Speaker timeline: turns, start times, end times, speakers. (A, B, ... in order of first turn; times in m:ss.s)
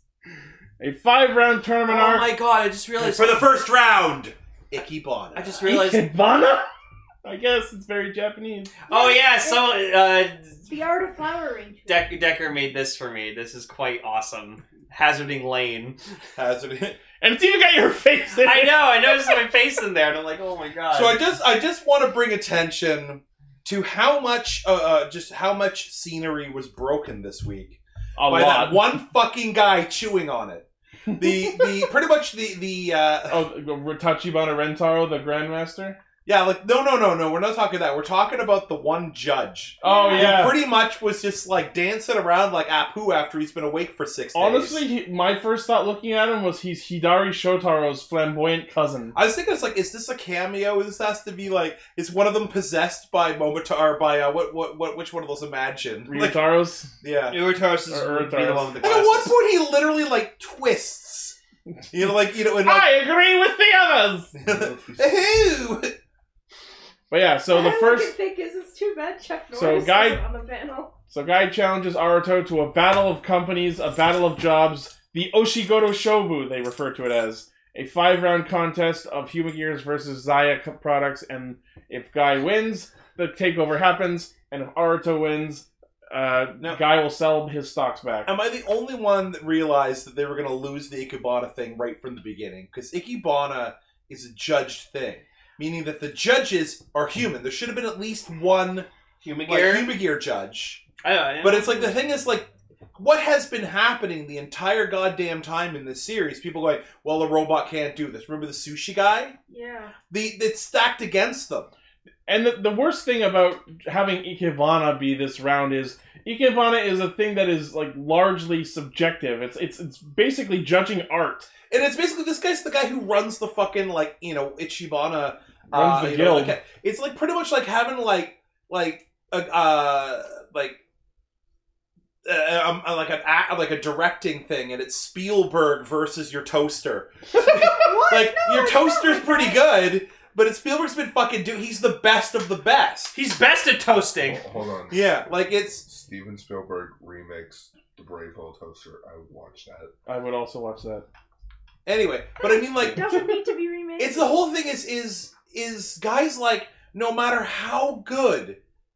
0:00.8-0:02.3 A
0:01.9-0:03.5 B
0:03.0-0:05.6 C
0:05.4-0:06.1 B
0:05.6-0:06.7 A
0:07.2-0:08.7 A
0:08.9-0:10.6 B
0:08.9-0:09.7 D
0:10.7-0:12.1 D
0:11.9-0:16.0 B
0:16.4-0:17.0 C
0:17.2-0:19.3 A
0:18.4-0:21.2 B
0:20.9-0:33.4 C
0:28.2-0:28.9 A
0:31.1-0:31.7 A
0:33.3-0:36.0 A
0:36.2-0:44.8 C
0:39.8-0:40.4 D
0:39.8-0:40.6 A
0:44.3-0:49.2 A
0:49.1-0:56.4 C
0:56.1-0:57.0 A
0:57.0-0:57.4 C
0:57.3-0:59.4 B
0:57.9-0:58.9 A
0:58.8-1:01.4 C
1:01.9-1:02.9 C
1:02.5-1:04.4 A
1:04.3-1:05.9 C
1:07.1-1:08.1 A
1:07.5-1:11.0 D
1:09.5-1:10.2 A
1:11.1-1:28.3 A
1:28.3-1:38.9 C
1:39.2-1:39.9 B
1:39.5-1:40.8 C
1:41.0-1:42.0 B
1:41.4-1:49.4 C
1:49.5-1:50.0 D
1:50.1-1:51.7 C
1:52.3-2:01.5 A
2:01.7-2:10.8 C
2:05.7-2:06.6 A
2:12.2-2:23.1 C
2:17.4-2:19.7 D
2:23.1-2:24.4 B
2:24.2-2:29.9 E
2:24.9-2:25.8 C
2:30.1-2:31.0 A
2:31.8-2:33.4 C
2:32.4-2:34.4 D
2:34.0-2:38.6 C